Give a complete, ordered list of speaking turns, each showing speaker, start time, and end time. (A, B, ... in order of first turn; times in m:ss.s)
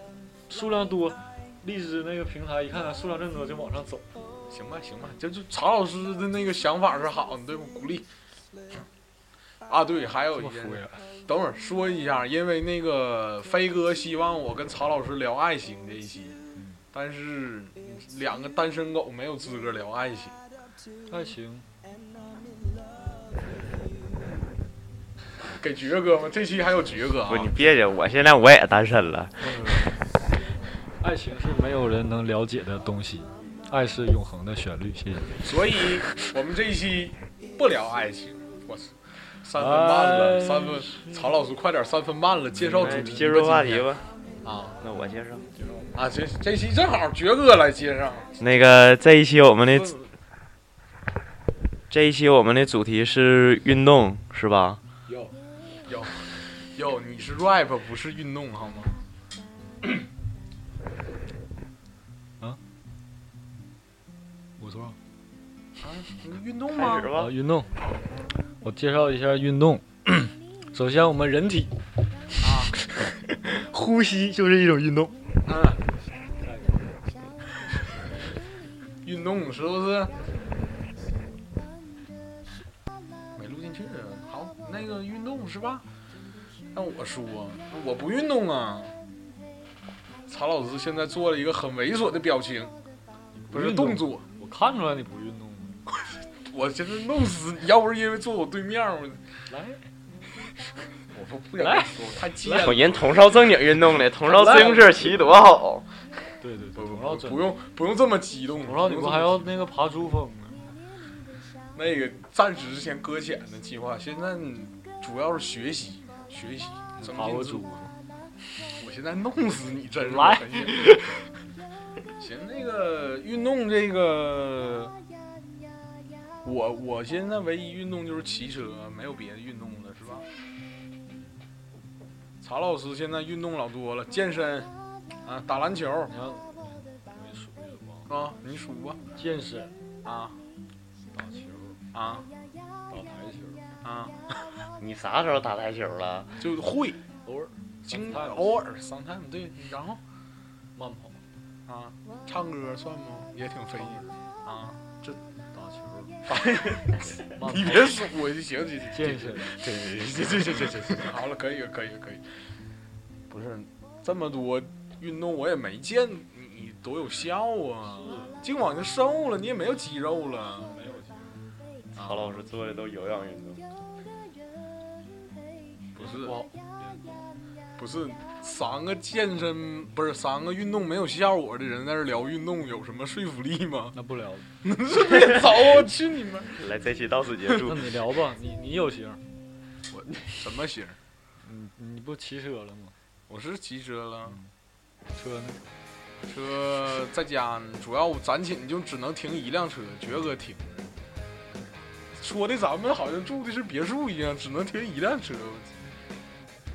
0:00.5-0:04.1 A
0:04.5-0:08.0 B
0:09.7-0:16.4 B
0:10.3-0:11.0 A
0:16.9-0:20.3 B
0:21.1-0:21.7 A
0:25.6-0:27.5 B
0:27.2-0:29.6 C
0:29.4-0:30.0 A
0:31.0-0:35.4 A
0:35.4-0:38.9 B
0:39.4-0:43.9 B
0:39.6-0:41.3 A
0:42.6-0:43.4 A
0:42.7-0:44.0 C
0:44.4-0:44.8 B
0:44.8-0:45.4 C
0:45.6-0:45.9 A
0:45.9-0:48.3 B
0:48.4-0:50.0 C
0:51.9-0:54.8 C
0:55.1-0:55.4 A
0:55.8-0:58.9 B
1:04.6-1:05.0 A
1:05.8-1:07.1 B
1:06.7-1:07.3 C
1:07.2-1:07.7 A
1:08.6-1:11.7 A
1:12.4-1:12.8 B
1:13.4-1:15.2 A
1:15.4-1:15.8 B
1:16.4-1:17.1 A
1:19.0-1:20.1 B
1:23.4-1:25.8 B
1:26.7-1:28.9 B
1:30.3-1:32.7 B
1:33.3-1:35.8 A
1:33.5-1:34.2 B
1:36.5-1:39.2 B
1:39.5-1:39.8 A
1:41.1-1:43.6 B
1:41.6-1:42.6 A
1:42.6-1:46.0 C
1:44.2-1:45.2 B
1:44.4-1:44.6 A
1:46.4-1:47.6 A
1:46.8-1:49.5 B
1:48.6-1:50.7 A
1:51.7-1:57.6 B
1:57.0-1:57.9 A
1:58.8-2:01.2 B
2:00.0-2:00.7 A
2:02.2-2:04.9 B
2:06.4-2:10.2 B
2:12.4-2:14.7 B
2:15.2-2:16.1 B
2:16.1-2:18.1 A
2:18.1-2:19.0 B
2:19.2-2:19.7 A
2:20.0-2:20.4 B
2:21.1-2:21.8 A
2:21.9-2:22.3 B
2:22.9-2:23.6 A
2:23.8-2:24.4 B
2:24.8-2:26.4 C
2:26.4-2:27.0 B
2:27.2-2:28.5 A
2:27.9-2:30.0 B
2:30.7-2:31.2 A
2:31.7-2:35.2 B
2:33.8-2:34.2 A
2:35.5-2:36.2 A
2:36.3-2:42.2 B
2:37.0-2:37.9 A
2:38.9-2:39.5 A
2:43.3-2:50.7 B
2:47.8-2:48.4 A
2:50.6-2:51.4 A
2:51.9-2:52.4 B
2:52.0-2:53.6 C
2:56.0-2:56.3 B
2:56.0-2:57.3 A
2:57.8-3:03.9 B
3:03.9-3:04.5 A
3:04.6-3:06.6 B
3:06.6-3:07.9 C
3:07.5-3:09.2 A
3:09.9-3:11.0 B
3:11.4-3:12.9 A
3:13.3-3:14.4 B
3:15.2-3:15.6 A
3:16.3-3:20.9 B
3:22.2-3:25.7 B